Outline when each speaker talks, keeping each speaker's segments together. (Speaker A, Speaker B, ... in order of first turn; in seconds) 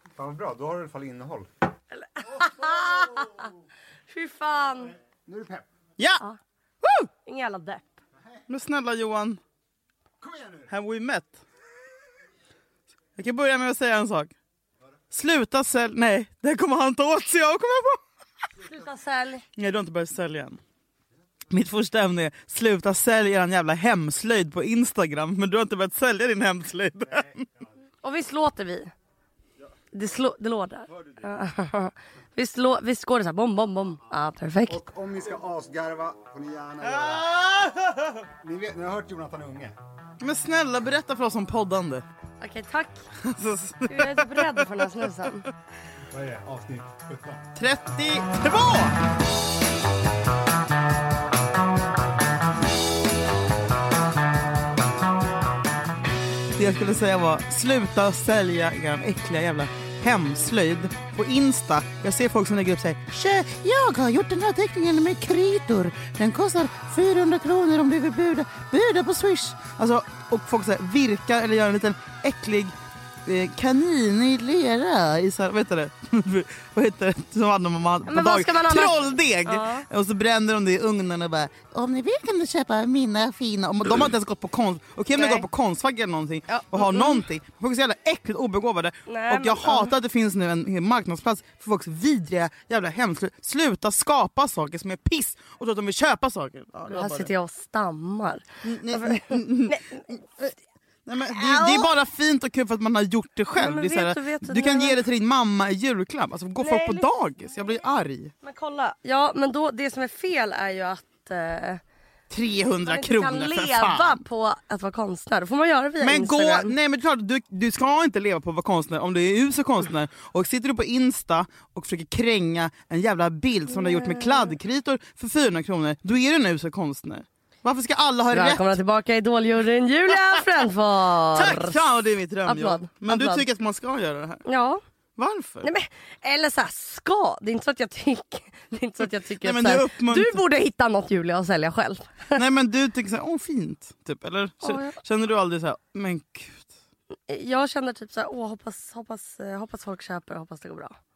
Speaker A: 0.2-1.5, 5.2-5.7, 10.2-10.6, 34.7-37.3, 38.4-39.7, 46.1-47.4
Speaker B: 1.9-3.5, 4.1-4.9, 7.2-8.0, 18.6-19.4, 28.0-28.9, 29.9-34.8, 42.4-43.0, 43.9-45.4, 78.1-79.8, 85.2-85.5, 86.5-87.2, 89.1-89.9, 96.9-100.5, 101.3-101.9, 103.5-105.0, 106.6-107.1, 108.4-111.8, 112.8-116.7, 123.7-124.5, 128.3-131.8, 132.4-133.5, 134.4-134.8, 135.6-142.4, 144.6-145.0, 147.3-150.9
Speaker C: 6.0-6.2, 8.5-9.4, 10.7-11.4, 13.2-14.3, 15.1-18.0, 19.6-20.6, 21.5-27.5, 36.8-38.2, 40.2-42.0, 43.2-44.9, 47.5-49.0, 56.5-97.3, 98.6-100.5, 101.0-108.3, 112.3-114.2, 116.0-128.8, 131.3-134.4, 135.2-135.7, 139.4-140.4, 142.3-146.7